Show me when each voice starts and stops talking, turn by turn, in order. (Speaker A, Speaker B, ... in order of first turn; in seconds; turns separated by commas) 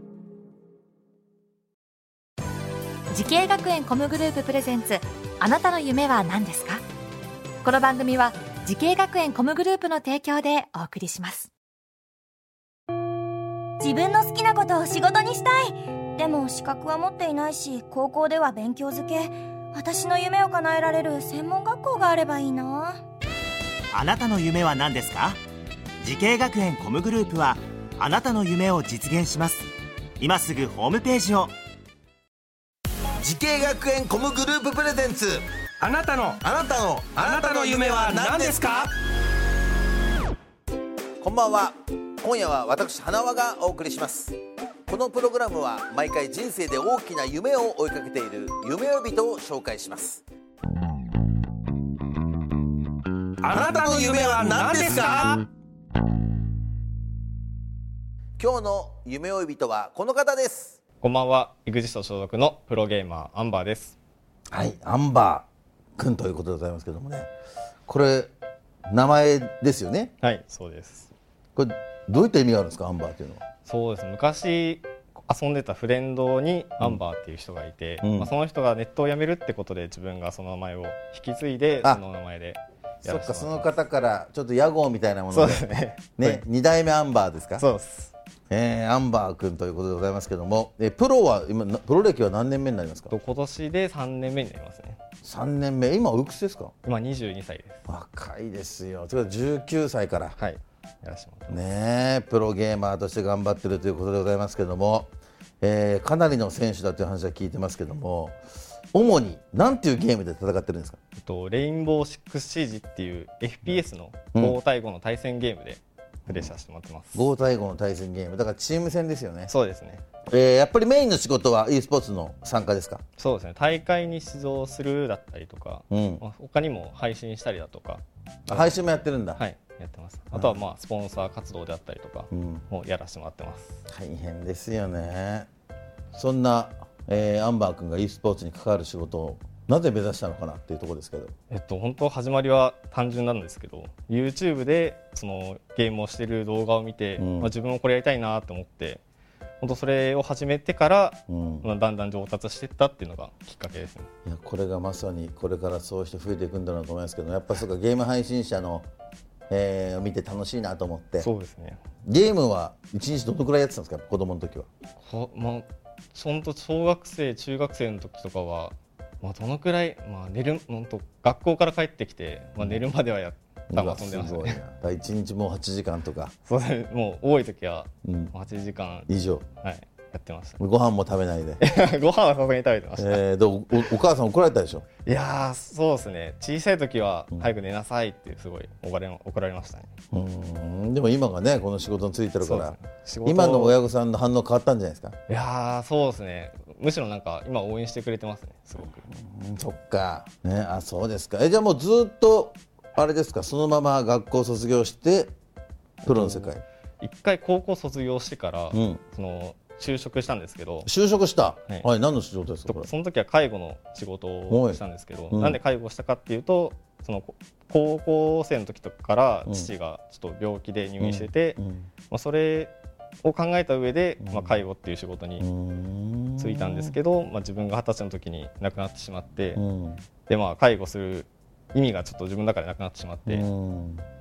Speaker A: 3.1-6.8, Speaker A: 7.6-11.5, Speaker B: 13.8-23.0, Speaker C: 23.9-25.4, Speaker C: 26.0-31.5, Speaker D: 33.2-35.5, Speaker E: 35.8-36.4, Speaker D: 36.4-38.9, Speaker E: 37.2-38.9, Speaker D: 41.2-44.4, Speaker D: 44.9-50.2, Speaker E: 53.4-55.4, Speaker D: 53.5-55.4, Speaker D: 58.4-60.8, Speaker F: 61.0-64.0, Speaker D: 64.5-67.3, Speaker D: 67.8-68.3, Speaker D: 68.9-70.1, Speaker F: 70.2-71.1, Speaker D: 71.5-73.4, Speaker F: 73.6-83.8, Speaker D: 78.0-78.3, Speaker D: 83.0-87.7, Speaker F: 85.3-86.4, Speaker F: 87.6-88.1, Speaker D: 88.5-93.1, Speaker F: 93.1-95.0, Speaker D: 95.2-96.7, Speaker F: 96.8-97.8, Speaker D: 97.9-100.4, Speaker F: 100.3-101.6, Speaker D: 101.5-105.1, Speaker D: 105.6-108.4, Speaker D: 108.9-111.0, Speaker F: 111.2-117.3, Speaker D: 116.3-116.5, Speaker D: 117.1-119.5, Speaker F: 119.5-120.0, Speaker D: 120.3-123.0, Speaker F: 123.2-128.7, Speaker D: 125.9-126.2, Speaker D: 128.5-129.4, Speaker F: 129.3-133.8, Speaker D: 130.3-130.6, Speaker D: 132.3-132.6, Speaker D: 133.9-135.5, Speaker D: 136.1-141.3, Speaker F: 141.5-149.0, Speaker D: 147.2-147.5, Speaker F: 149.6-154.1, Speaker D: 151.3-151.7, Speaker D: 154.2-158.9, Speaker D: 159.5-161.3, Speaker F: 161.2-161.8, Speaker D: 162.1-164.7, Speaker F: 165.0-174.6, Speaker D: 173.7-176.3, Speaker F: 176.4-180.6, Speaker D: 178.0-178.3, Speaker D: 179.1-179.4, Speaker D: 180.6-181.6, Speaker F: 181.6-183.2, Speaker D: 183.0-184.8, Speaker F: 185.0-189.9, Speaker D: 190.1-195.2, Speaker F: 192.4-193.8, Speaker F: 195.3-199.0, Speaker D: 199.0-205.3, Speaker F: 206.0-210.9, Speaker D: 206.0-206.6, Speaker D: 208.7-209.0, Speaker D: 210.8-212.9, Speaker F: 212.7-221.6, Speaker D: 214.5-215.6, Speaker D: 219.5-219.7, Speaker D: 221.0-221.9, Speaker F: 222.1-225.5, Speaker D: 224.2-224.6, Speaker D: 225.4-226.9, Speaker F: 226.4-229.6, Speaker D: 229.6-230.0, Speaker F: 230.3-233.4, Speaker D: 233.2-234.0